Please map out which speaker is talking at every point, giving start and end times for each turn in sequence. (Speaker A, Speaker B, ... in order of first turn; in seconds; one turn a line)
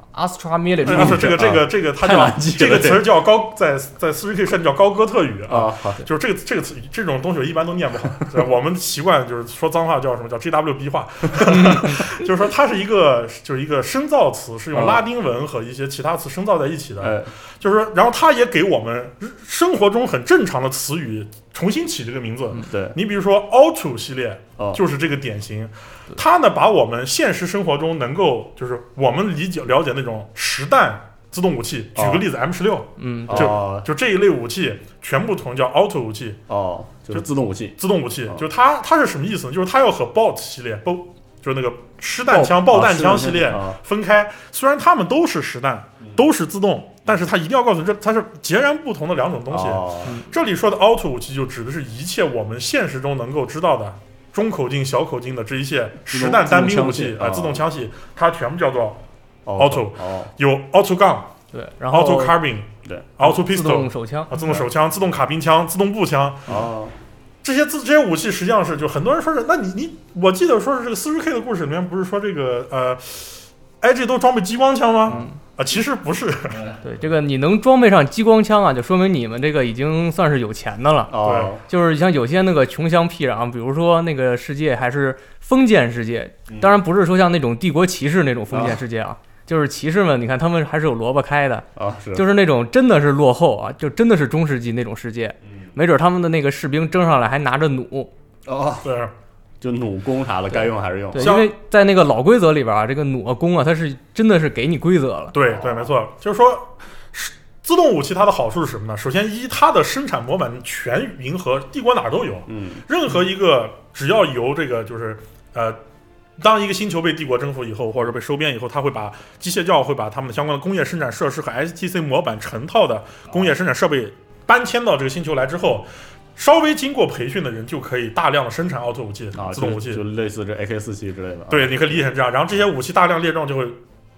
Speaker A: 0.1-1.4
Speaker B: 0.8-3.1
Speaker C: 0.8-36.4
Speaker B: 5.5-6.0
Speaker B: 14.7-15.1
Speaker B: 17.0-17.3
Speaker B: 22.6-23.0
Speaker B: 32.0-32.3
Speaker A: 33.0-33.5
Speaker B: 33.3-33.9
Speaker B: 36.5-38.4
Speaker C: 37.8-59.0
Speaker B: 42.3-43.8
Speaker B: 49.5-50.2
Speaker B: 56.1-57.6
Speaker B: 59.5-60.3
Speaker C: 59.6-61.3
Speaker A: 61.5-62.4
Speaker C: 61.9-66.6
Speaker B: 62.9-63.1
Speaker A: 63.2-64.4
Speaker B: 66.5-67.0
Speaker C: 67.4-76.7
Speaker A: 75.1-75.4
Speaker B: 76.5-76.8
Speaker A: 76.8-98.1
Speaker B: 81.1-81.6
Speaker C: 81.2-81.5
Speaker B: 86.5-86.8
Speaker B: 88.5-88.8
Speaker B: 91.8-92.3
Speaker B: 95.5-95.8
Speaker B: 98.5-98.9
Speaker C: 98.8-99.1
Speaker B: 99.6-101.4
Speaker A: 101.1-105.3
Speaker C: 101.2-101.5
Speaker C: 105.3-115.8
Speaker B: 105.5-105.9
Speaker B: 112.5-112.8
Speaker C: 116.4-130.0
Speaker B: 129.3-132.1
Speaker C: 131.5-133.8